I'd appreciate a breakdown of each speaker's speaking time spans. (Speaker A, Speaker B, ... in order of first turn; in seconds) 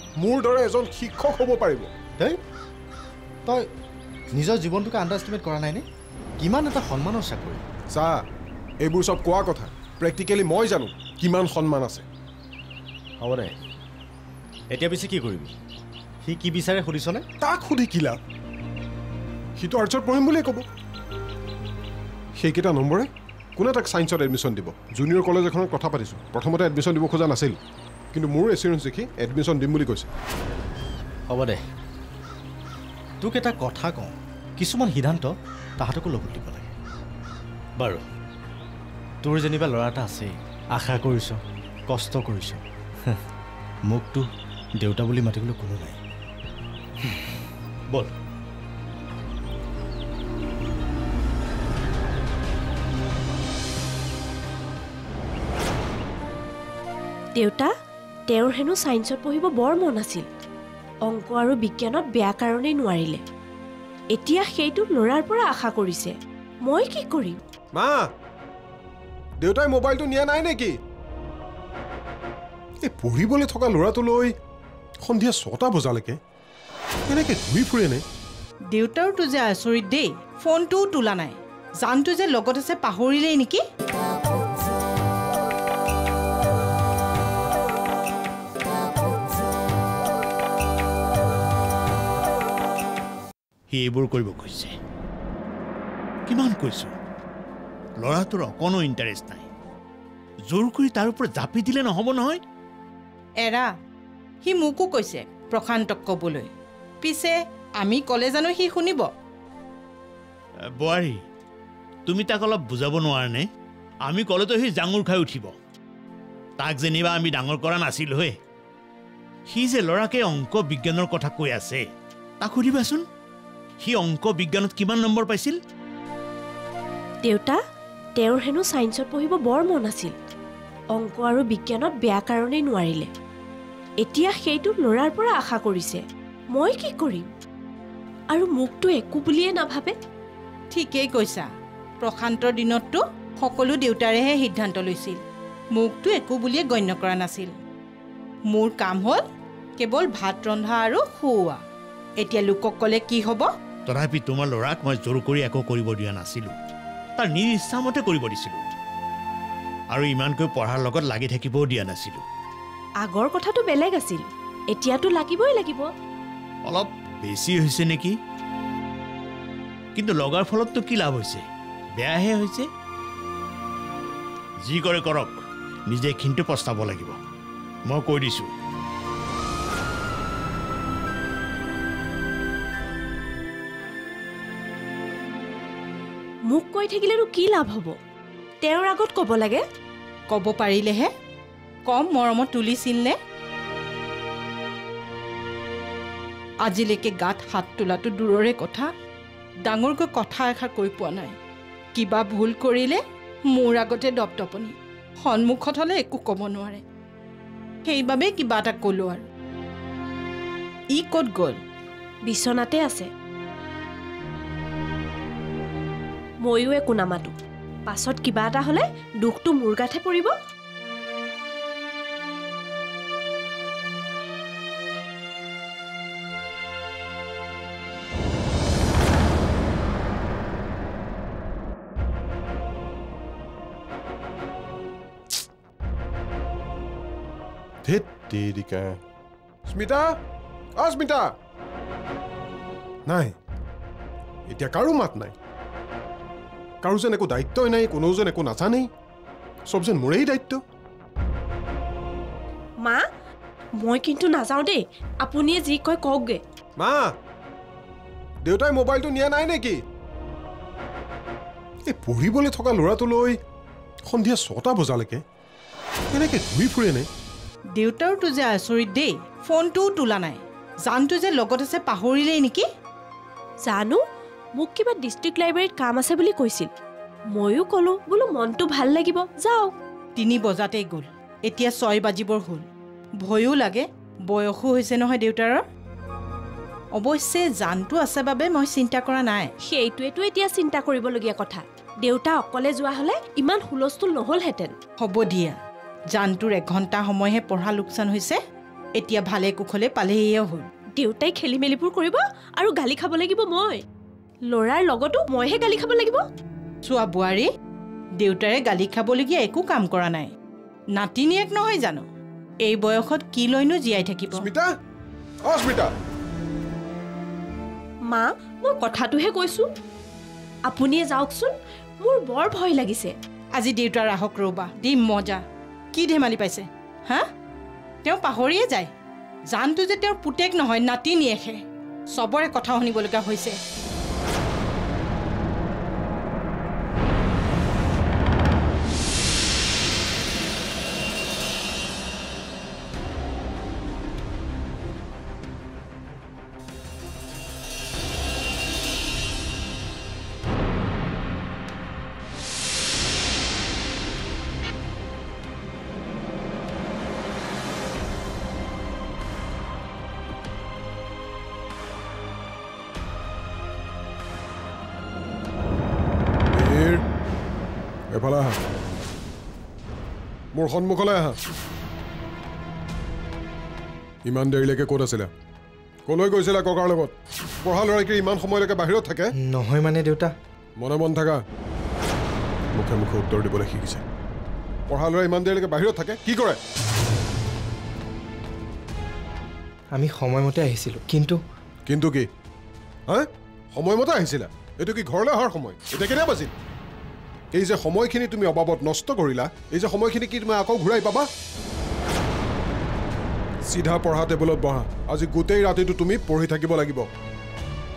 Speaker A: 0.2-1.9, 7.9-8.2, 8.8-12.1, 17.4-18.2, 19.6-20.6, 22.4-27.6, 28.1-30.1, 67.7-68.1, 69.4-70.7, 72.8-74.3, 75.0-76.2, 77.1-78.0, 237.8-239.0, 239.7-240.2, 240.8-241.3, 243.1-243.3, 244.5-245.3, 246.8-248.9, 249.7-250.6, 256.8-257.1, 258.4-259.8, 261.9-263.4, 264.1-265.2, 266.1-267.1, 314.3-314.7, 315.4-315.9, 366.5-367.0, 368.1-368.6, 370.5-371.4, 374.2-375.3, 376.1-379.3, 380.8-381.4, 382.8-384.0, 384.9-386.6, 391.9-392.3, 393.1-396.5, 397.5-401.3, 403.7-407.1
Speaker B: 4.3-5.8, 6.4-7.6, 13.2-13.5, 14.7-15.5, 16.2-17.2, 31.3-31.6, 33.2-36.7, 39.2-43.2, 43.9-44.3, 44.8-46.0
Speaker C: 57.4-57.7, 58.3-60.3, 61.1-63.2, 64.1-66.1, 66.7-67.4, 127.2-127.6, 128.2-130.1, 130.9-133.1, 134.0-136.0, 136.5-137.3, 138.3-139.9, 163.0-165.9, 186.5-187.9, 188.6-189.6, 212.2-213.1, 216.4-217.3, 217.9-220.3, 253.8-256.4, 273.6-274.0, 274.6-276.7, 277.3-279.7, 289.6-294.8, 301.0-303.8, 304.5-306.2, 318.1-319.7, 320.7-323.1
Speaker D: 78.7-83.6, 103.4-103.7, 104.4-106.5, 107.0-109.1, 140.7-141.5, 142.0-145.2, 145.8-147.5, 148.5-149.2, 149.8-151.6, 152.2-153.5, 190.3-191.1, 191.9-193.2, 196.6-198.9, 199.7-201.4, 201.9-203.0, 203.5-206.8, 207.8-209.2, 210.9-211.6, 267.8-272.6, 280.2-282.7, 283.2-285.6, 286.9-289.5, 295.0-295.6, 296.1-298.4, 299.0-300.7, 306.8-307.5, 308.2-310.3, 310.9-312.0, 312.6-314.4, 323.5-325.4, 325.9-327.3, 328.0-328.9, 329.5-331.6, 332.1-333.6
Speaker E: 93.7-94.7, 96.3-96.9, 98.0-99.4, 100.5-102.4, 110.8-111.2, 112.0-113.5, 114.0-115.5, 116.6-118.3, 119.5-121.8, 122.4-123.0, 123.8-125.6, 153.9-156.5, 157.2-158.6, 159.9-162.2, 166.7-168.2, 169.9-171.4, 172.0-172.7, 174.7-177.2, 177.9-178.5
Speaker F: 379.4-380.3, 389.9-391.4